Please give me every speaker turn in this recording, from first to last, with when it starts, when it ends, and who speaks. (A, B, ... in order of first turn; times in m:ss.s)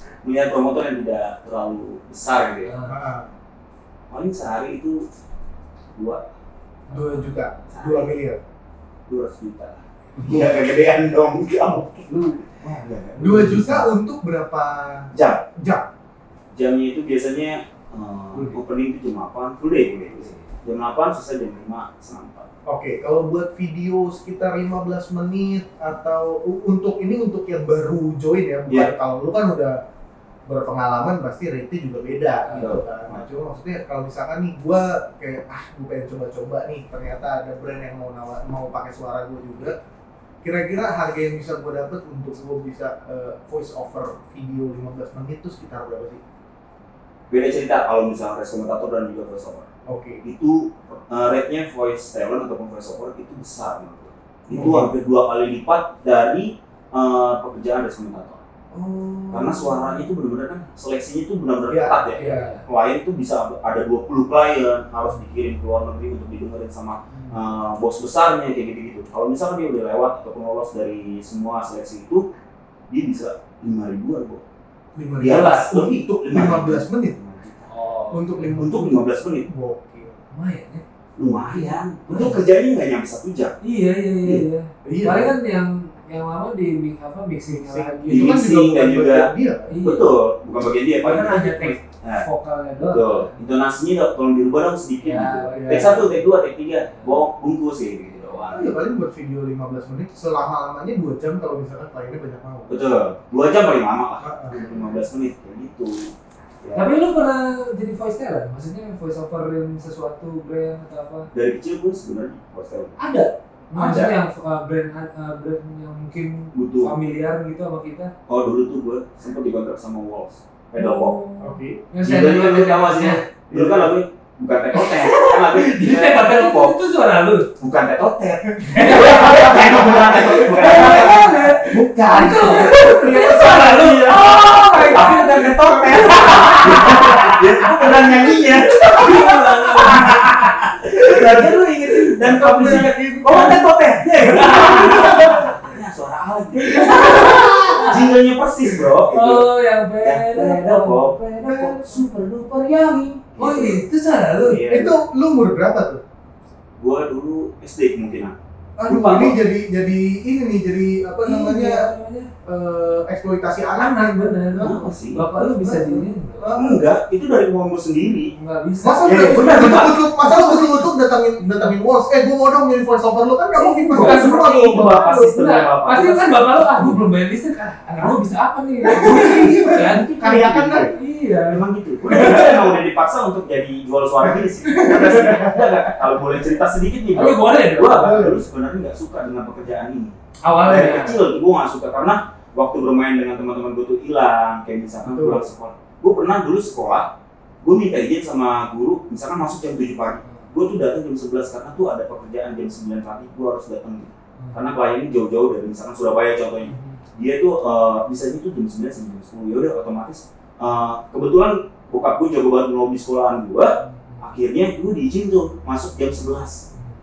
0:00.2-0:02.7 A
0:02.6-0:03.0 B
0:02.8-0:03.3 C
0:04.1-0:05.0 A
0:05.9-0:06.3 A
0:06.9-0:07.6 B
0:06.9-0:08.4 C
0:07.7-0:08.1 A
0:09.1-0:13.6 A
0:10.1-0:10.5 C
0:12.6-0:13.9 B
0:13.2-0:15.8 C
0:15.1-0:15.4 A
0:16.5-0:22.5 A
0:20.1-0:20.4 B
0:22.7-0:29.8 C
0:30.5-0:39.8 C
0:32.4-0:32.8 B
0:32.5-0:33.2 A
0:40.4-0:46.2 C
0:47.3-0:49.7 A
0:49.9-0:50.2 C
0:50.2-0:58.4 A
0:54.5-0:54.9 C
0:58.7-1:00.0 C
0:59.3-1:12.2 A
1:01.7-1:02.5 C
1:02.1-1:02.6 B
1:12.9-1:14.4 A
1:14.9-1:17.2 C
1:15.2-1:17.7 A
1:15.2-1:15.9 B
1:17.7-1:18.6 B
1:18.1-1:20.2 C
1:18.5-1:19.4 A
1:20.3-1:20.8 B
1:21.2-1:23.6 A
1:21.4-1:22.4 B
1:23.6-1:28.4 B
1:24.8-1:25.4 C
1:27.5-1:29.7 C
1:28.1-1:29.3 A
1:29.7-1:30.1 B
1:29.8-1:32.2 A
1:31.0-1:33.4 B
1:32.9-1:38.7 A
1:35.0-1:36.1 B
1:35.5-1:36.1 C
1:36.9-1:37.2 B
1:38.5-1:42.8 C
1:42.7-1:46.1 A
1:44.2-1:44.6 C
1:46.6-1:46.9 A
1:46.7-1:51.3 B
1:51.3-1:53.0 A
1:53.0-1:58.1 B
1:53.7-1:54.0 C
1:53.8-1:54.1 A
1:56.5-1:57.0 A
1:58.3-2:01.2 A
2:00.8-2:03.2 B
2:01.4-2:01.8 C
2:02.0-2:06.8 A
2:03.5-2:03.9 C
2:04.7-2:07.5 B
2:07.6-2:29.5 A
2:08.5-2:10.5 C
2:08.7-2:21.4 B
2:15.3-2:17.0 C
2:22.2-2:23.7 C
2:24.2-2:25.8 B
2:24.4-2:25.5 C
2:26.7-2:28.1 B
2:26.7-2:28.0 C
2:29.1-2:32.0 B
2:30.0-2:33.8 A
2:33.4-2:34.6 B
2:34.4-2:35.0 A
2:34.6-2:36.0 C
2:36.8-2:39.4 A
2:38.8-2:41.9 C
2:41.2-2:42.3 B
2:42.4-2:44.9 C
2:43.8-2:46.6 B
2:44.6-2:45.2 A
2:45.4-2:46.8 C
2:46.6-2:48.3 A
2:48.3-2:51.7 B
2:48.8-2:55.3 C
2:49.0-2:50.0 A
2:53.6-2:54.5 B
2:53.9-2:57.0 A
2:55.1-3:00.1 B
2:58.8-3:00.9 C
2:59.2-3:17.1 A
3:00.9-3:01.6 B
3:02.1-3:02.6 C
3:04.2-3:05.9 C
3:07.1-3:08.2 B
3:07.8-3:08.4 C
3:10.4-3:11.2 B
3:15.0-3:15.4 C
3:17.6-3:36.6 A
3:33.8-3:34.3 B